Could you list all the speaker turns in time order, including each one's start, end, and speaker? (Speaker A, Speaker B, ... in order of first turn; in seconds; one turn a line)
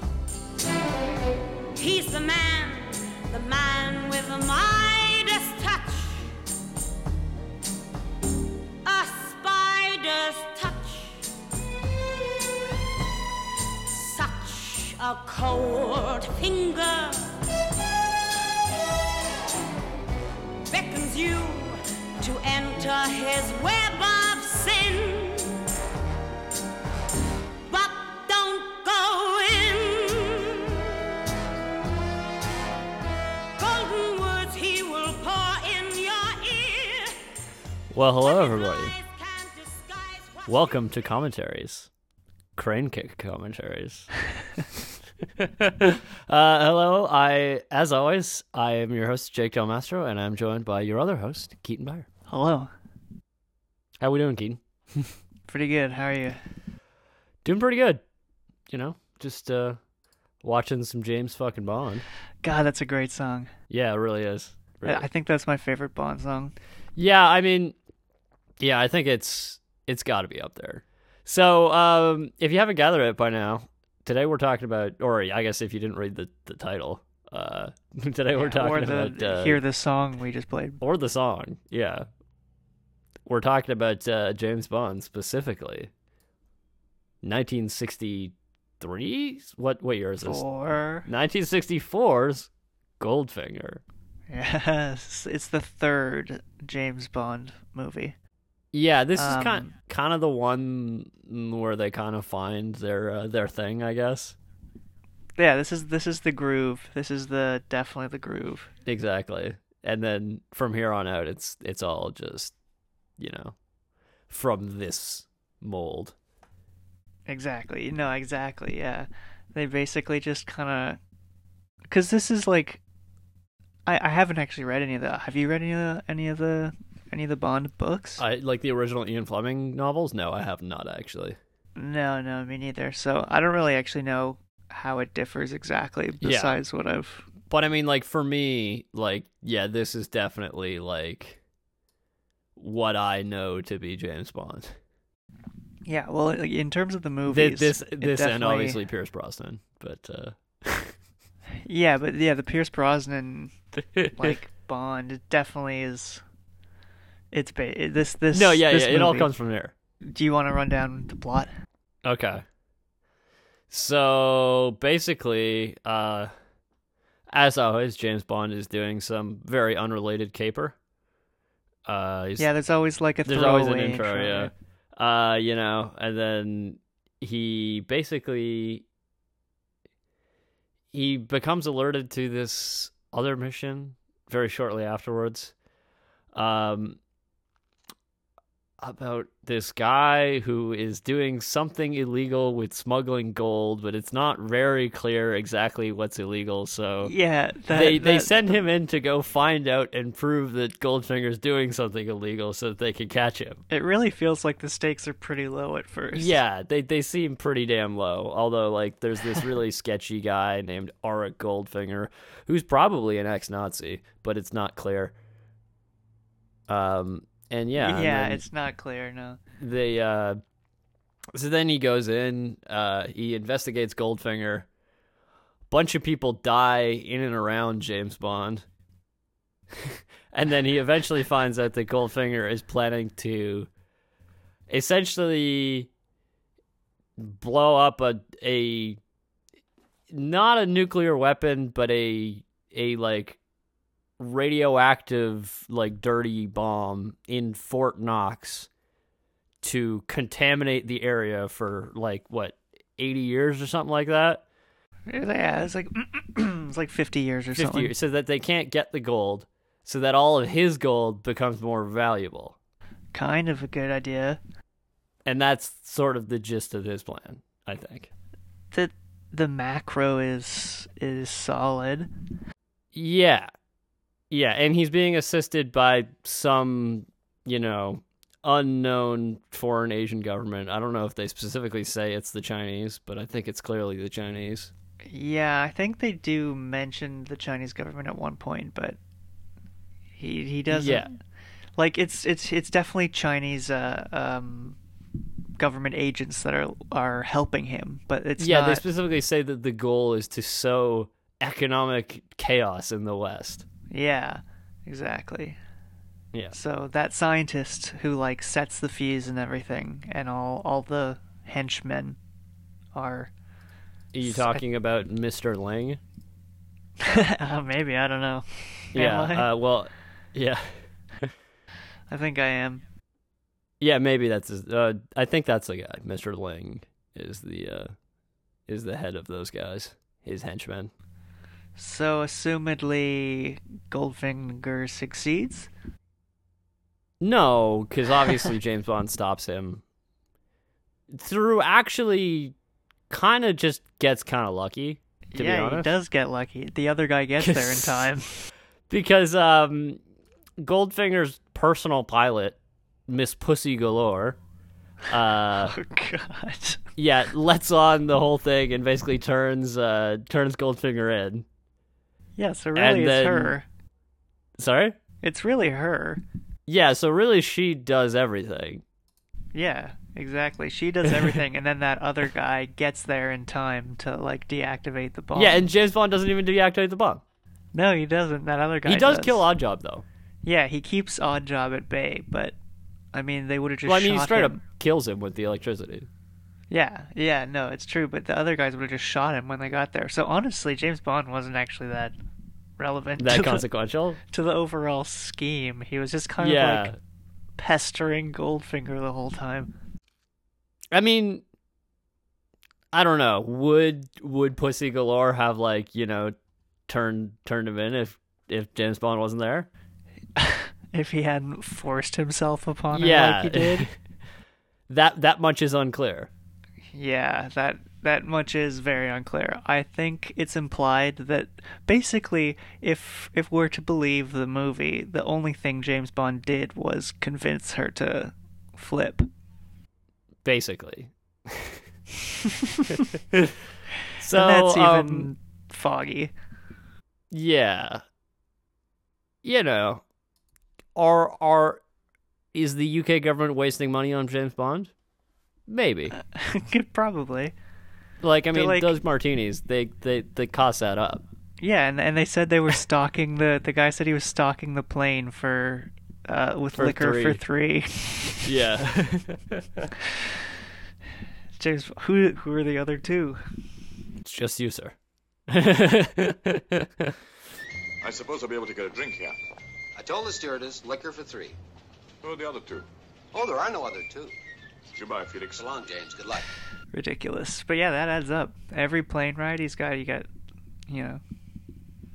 Speaker A: 1.8-6.3
Speaker A: 8.8-11.2
Speaker A: 13.9-17.4
Speaker A: 20.7-25.6
Speaker A: 27.7-31.1
Speaker A: 33.6-37.2
Speaker B: 37.9-38.9
Speaker A: 38.2-40.8
Speaker B: 40.5-41.9
Speaker B: 42.5-44.1
Speaker B: 45.4-52.1
Speaker C: 52.3-52.7
Speaker B: 54.0-55.1
Speaker C: 55.5-56.4
Speaker B: 57.4-58.0
Speaker B: 58.7-59.8
Speaker B: 60.4-62.0
Speaker C: 62.4-63.5
Speaker B: 63.7-65.0
Speaker C: 64.8-66.5
Speaker B: 67.0-67.8
Speaker B: 68.6-79.6
Speaker C: 78.3-80.8
Speaker B: 80.8-82.1
Speaker B: 83.2-85.9
Speaker B: 87.2-90.4
Speaker C: 90.2-91.1
Speaker B: 91.0-93.8
Speaker C: 94.3-98.1
Speaker B: 98.7-104.3
Speaker C: 99.1-99.7
Speaker C: 105.4-108.7
Speaker B: 108.8-112.5
Speaker B: 113.2-113.5
Speaker B: 114.3-116.1
Speaker C: 117.3-121.0
Speaker C: 121.9-122.8
Speaker C: 123.9-128.2
Speaker B: 128.2-131.4
Speaker C: 131.8-137.3
Speaker B: 136.2-136.5
Speaker B: 137.5-141.4
Speaker B: 142.6-144.7
Speaker C: 145.8-148.8
Speaker B: 147.3-150.9
Speaker C: 151.6-153.5
Speaker B: 153.9-154.3
Speaker C: 154.1-156.2
Speaker C: 157.3-159.3
Speaker B: 158.3-159.7
Speaker C: 160.0-161.5
Speaker B: 162.0-162.4
Speaker B: 163.7-166.3
Speaker B: 167.3-170.8
Speaker B: 171.8-172.5
Speaker C: 172.4-174.5
Speaker B: 173.2-178.8
Speaker B: 180.9-185.5
Speaker B: 186.3-187.0
Speaker B: 188.8-197.1
Speaker C: 197.0-198.5
Speaker B: 197.7-203.6
Speaker C: 203.7-206.4
Speaker B: 206.1-215.1
Speaker B: 216.7-218.4
Speaker C: 217.8-219.4
Speaker B: 219.6-220.4
Speaker B: 221.3-224.7
Speaker B: 225.7-228.6
Speaker B: 229.7-233.7
Speaker B: 234.7-235.9
Speaker B: 237.2-239.0
Speaker B: 240.1-243.4
Speaker B: 244.2-248.7
Speaker B: 249.6-254.4
Speaker C: 255.1-257.9
Speaker B: 257.6-262.5
Speaker C: 263.1-264.4
Speaker B: 265.2-268.1
Speaker C: 268.7-272.1
Speaker B: 272.9-273.5
Speaker B: 274.3-284.7
Speaker C: 285.0-289.0
Speaker C: 290.2-291.1
Speaker B: 290.7-291.1
Speaker C: 291.8-294.8
Speaker C: 295.6-298.8
Speaker B: 298.4-303.6
Speaker C: 303.9-305.6
Speaker C: 306.5-312.2
Speaker C: 312.9-313.3
Speaker B: 314.1-316.0
Speaker C: 314.2-314.6
Speaker C: 317.0-319.5
Speaker B: 318.9-321.3
Speaker C: 322.1-322.8
Speaker B: 323.8-327.9
Speaker B: 328.7-330.9
Speaker C: 331.8-335.7
Speaker B: 337.2-339.8
Speaker B: 341.1-342.5
Speaker B: 343.1-345.9
Speaker C: 345.3-348.3
Speaker B: 347.4-348.1
Speaker B: 348.9-350.0
Speaker B: 350.6-354.4
Speaker B: 355.1-355.7
Speaker C: 355.6-356.8
Speaker B: 357.0-361.4
Speaker C: 362.4-363.6
Speaker B: 362.7-363.5
Speaker B: 364.6-365.0
Speaker C: 365.2-366.2
Speaker B: 366.6-368.8
Speaker C: 369.5-375.6
Speaker B: 375.3-377.2
Speaker C: 377.7-379.5
Speaker B: 378.8-380.0
Speaker C: 380.4-382.6
Speaker C: 383.1-384.6
Speaker B: 383.8-386.1
Speaker C: 386.7-392.1
Speaker C: 392.8-393.6
Speaker B: 393.2-394.2
Speaker C: 394.3-396.9
Speaker B: 396.4-397.0
Speaker C: 397.6-399.7
Speaker B: 400.9-401.4
Speaker B: 402.9-406.3
Speaker B: 406.9-409.7
Speaker C: 410.4-413.9
Speaker B: 412.9-413.9
Speaker B: 414.9-416.3
Speaker C: 416.9-429.3
Speaker B: 430.4-431.8
Speaker C: 432.4-433.0
Speaker B: 433.3-433.6
Speaker B: 434.2-435.3
Speaker C: 434.3-436.3
Speaker B: 437.3-438.0
Speaker B: 439.4-440.0
Speaker B: 440.9-441.8
Speaker B: 442.5-444.9
Speaker B: 445.7-446.1
Speaker C: 446.1-447.5
Speaker B: 448.2-451.2
Speaker C: 448.5-448.9
Speaker C: 451.6-458.5
Speaker B: 456.7-457.4
Speaker B: 458.4-459.9
Speaker C: 461.6-463.4
Speaker B: 464.2-464.9
Speaker B: 465.5-467.1
Speaker D: 468.0-469.4
Speaker E: 469.9-471.6
Speaker D: 472.2-472.9
Speaker E: 473.3-474.3
Speaker D: 474.9-475.6
Speaker E: 475.6-476.4
Speaker C: 476.9-480.3
Speaker C: 480.9-481.2